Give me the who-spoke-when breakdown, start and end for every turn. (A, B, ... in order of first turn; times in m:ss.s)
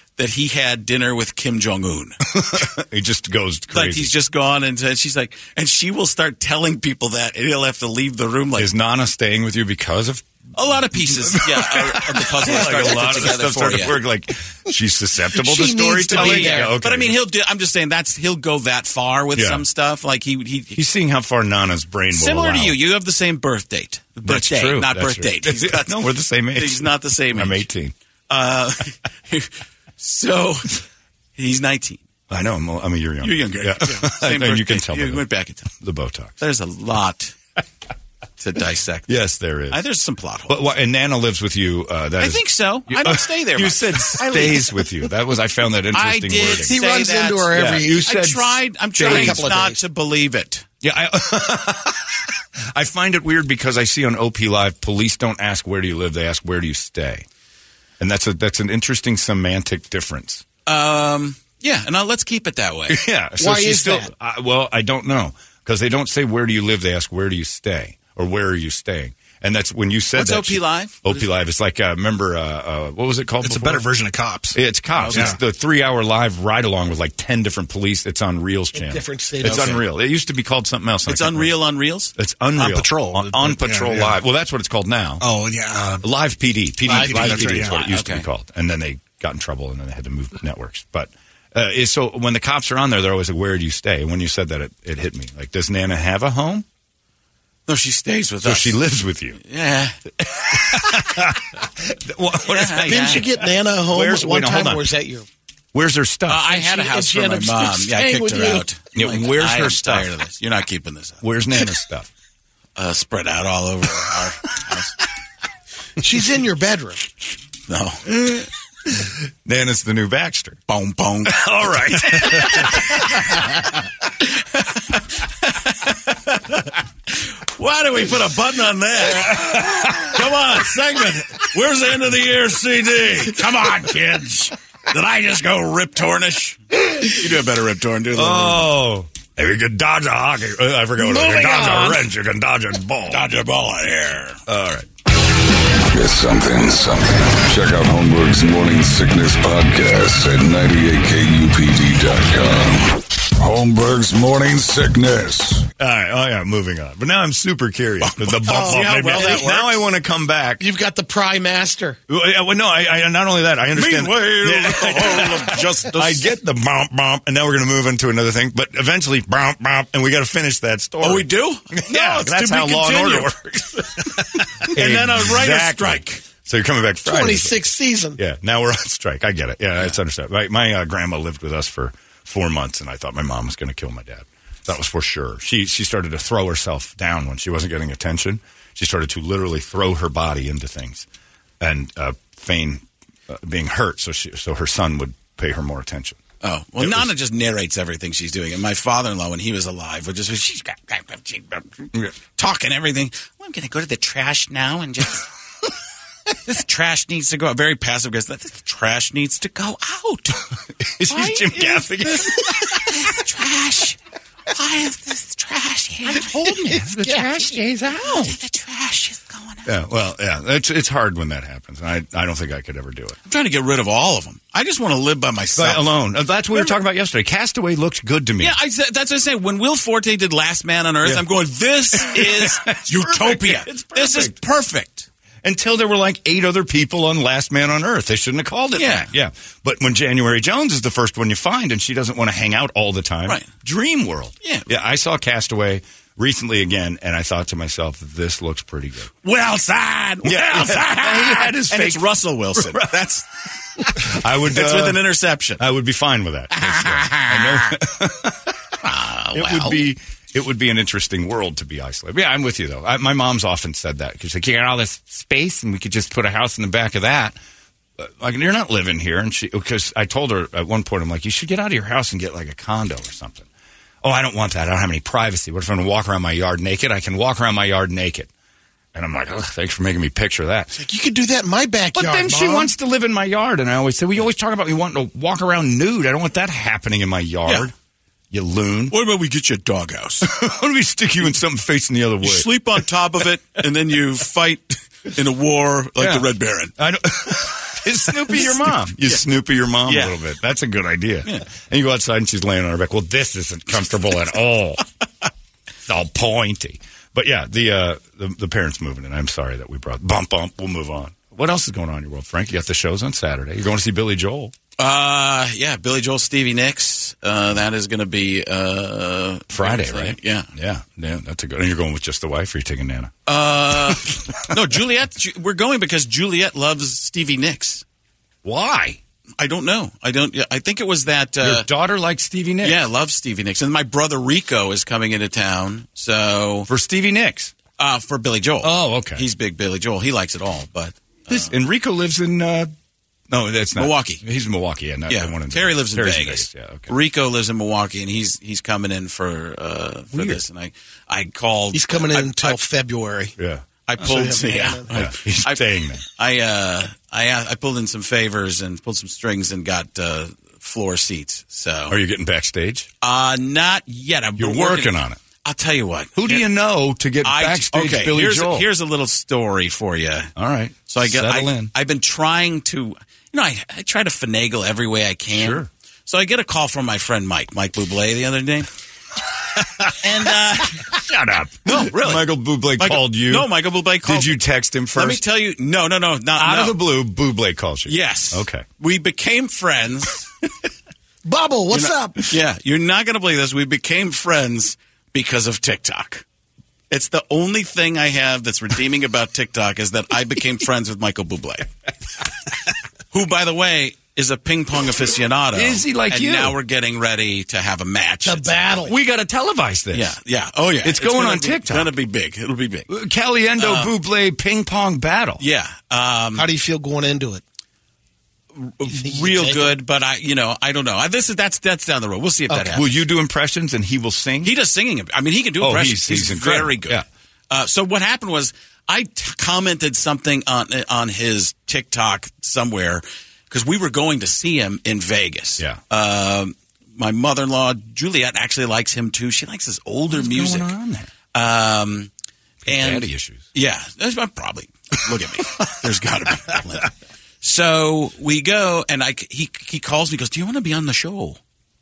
0:00.2-0:02.2 A
0:02.3-0:04.1 B
0:03.7-0:08.7 A
0:08.6-0:10.3 B
0:10.6-0:14.0 A
0:11.1-0:17.2 B
0:15.4-0:16.8 C
0:16.1-0:20.8 A
0:19.4-0:19.6 B
0:20.8-0:22.8 B
0:22.1-0:27.6 A
0:24.2-0:27.9 B
0:28.3-0:30.8 A
0:31.4-0:32.0 A
0:32.3-0:35.2 B
0:33.2-0:35.7 A
0:35.8-0:36.4 B
0:36.4-0:37.4 A
0:38.4-0:39.2 A
0:39.1-0:39.8 B
0:39.7-0:40.6 A
0:40.5-0:46.8 B
0:42.2-0:44.7 A
0:45.9-0:50.6 A
0:46.6-0:48.1 C
0:47.5-0:49.5 B
0:49.0-0:49.8 C
0:50.8-0:57.3 B
0:58.0-1:00.4 B
1:00.7-1:03.0 A
1:02.9-1:13.9 B
1:03.4-1:04.1 C
1:10.2-1:11.3 A
1:13.4-1:15.4 D
1:14.5-1:21.5 B
1:15.0-1:15.4 A
1:18.7-1:19.8 C
1:21.1-1:22.1 A
1:22.2-1:25.2 B
1:22.6-1:24.2 D
1:25.2-1:26.0 D
1:26.0-1:36.7 B
1:26.9-1:27.9 D
1:26.9-1:27.4 C
1:27.4-1:28.2 A
1:37.7-1:38.8 A
1:38.4-1:39.4 B
1:39.4-1:40.0 A
1:40.3-1:44.9 B
1:42.5-1:43.3 A
1:42.8-1:45.3 C
1:45.7-1:46.5 B
1:46.3-1:51.2 A
1:46.5-1:48.6 C
1:49.0-1:50.1 B
1:51.2-1:52.1 B
1:52.8-1:55.0 A
1:56.0-1:57.0 C
1:57.7-1:58.3 A
1:58.9-2:00.6 B
2:00.7-2:03.4 A
2:01.3-2:03.5 B
2:04.2-2:18.7 A
2:09.1-2:10.2 B
2:18.1-2:23.3 B
2:21.2-2:22.0 A
2:23.1-2:24.4 A
2:24.5-2:24.9 B
2:25.8-2:35.7 E
2:35.8-2:40.6 B
2:38.0-2:39.8 A
2:38.5-2:39.5 C
2:40.6-2:42.0 C
2:42.1-2:57.6 B
2:43.7-2:46.2 A
2:45.2-2:45.6 C
2:51.0-2:53.3 A
2:54.7-2:56.2 A
2:57.0-2:58.2 C
2:58.2-3:11.1 B
3:11.6-3:16.2 B
3:16.4-3:25.3 A
3:16.8-3:17.1 B
3:26.4-3:30.5 A
3:30.8-3:33.0 B
3:31.1-3:34.0 A
3:34.5-3:37.2 A
3:36.1-3:38.4 B
3:38.0-3:39.7 A
3:39.7-3:43.2 B
3:43.3-3:45.9 A
3:45.6-3:48.6 B
3:48.4-3:55.1 A
3:51.9-3:54.4 B
3:55.4-4:09.1 B
3:58.8-3:59.1 A
4:04.4-4:04.7 A
4:09.2-4:13.3 A
4:10.2-4:13.0 B
4:13.8-4:15.6 A
4:13.9-4:15.0 B
4:15.6-4:18.6 B
4:16.5-4:17.8 A
4:18.8-4:19.8 A
4:19.3-4:27.4 B
4:28.0-4:33.5 B
4:34.0-4:38.3 B
4:38.9-4:40.7 B
4:40.7-4:42.7 C
4:41.9-4:47.7 B
4:48.3-4:49.0 B
4:48.9-4:50.3 A
4:50.2-4:52.6 B
4:52.2-4:56.7 A
4:56.0-5:04.8 B
4:58.3-4:59.2 A
4:59.9-5:00.2 A
5:05.9-5:14.5 B
5:14.8-5:20.5 A
5:19.5-5:23.1 B
5:23.3-5:27.8 A
5:23.9-5:24.2 B
5:28.4-5:29.0 B
5:29.4-5:31.7 A
5:31.4-5:32.8 B
5:32.6-5:36.7 A
5:36.7-5:37.5 B
5:37.8-5:41.5 A
5:38.6-5:39.2 B
5:41.3-5:42.7 B
5:43.3-5:46.9 B
5:43.8-5:44.2 A
5:45.1-5:52.6 A
5:50.1-5:50.4 B
5:51.7-5:53.3 C
5:53.4-5:54.1 B
5:53.9-6:02.0 A
5:54.0-5:54.9 C
5:54.9-5:56.0 B
6:01.9-6:02.9 B
6:03.0-6:06.4 A
6:04.4-6:05.2 B
6:06.2-6:08.7 B
6:07.2-6:10.3 A
6:10.4-6:11.7 B
6:10.9-6:18.7 A
6:15.3-6:15.7 B
6:20.0-6:21.0 A
6:20.9-6:23.5 B
6:21.7-6:24.4 A
6:24.0-6:25.2 B
6:25.0-6:26.8 A
6:26.4-6:28.7 B
6:27.9-6:30.3 A
6:31.2-6:32.2 C
6:31.7-6:36.2 A
6:36.9-6:41.7 A
6:43.1-6:48.7 A
6:45.5-6:46.6 B
6:48.2-6:48.9 C
6:48.8-6:50.1 B
6:49.9-6:52.9 A
6:50.8-6:51.9 B
6:52.9-6:55.4 B
6:53.6-6:53.9 A
6:55.4-6:56.4 A
6:56.3-6:57.4 C
6:58.6-7:03.0 A
6:58.9-6:59.8 C
7:02.7-7:04.5 B
7:04.4-7:20.7 A
7:05.6-7:07.1 B
7:20.1-7:21.1 B
7:21.3-7:22.1 A
7:22.7-7:23.4 B
7:22.7-7:31.4 A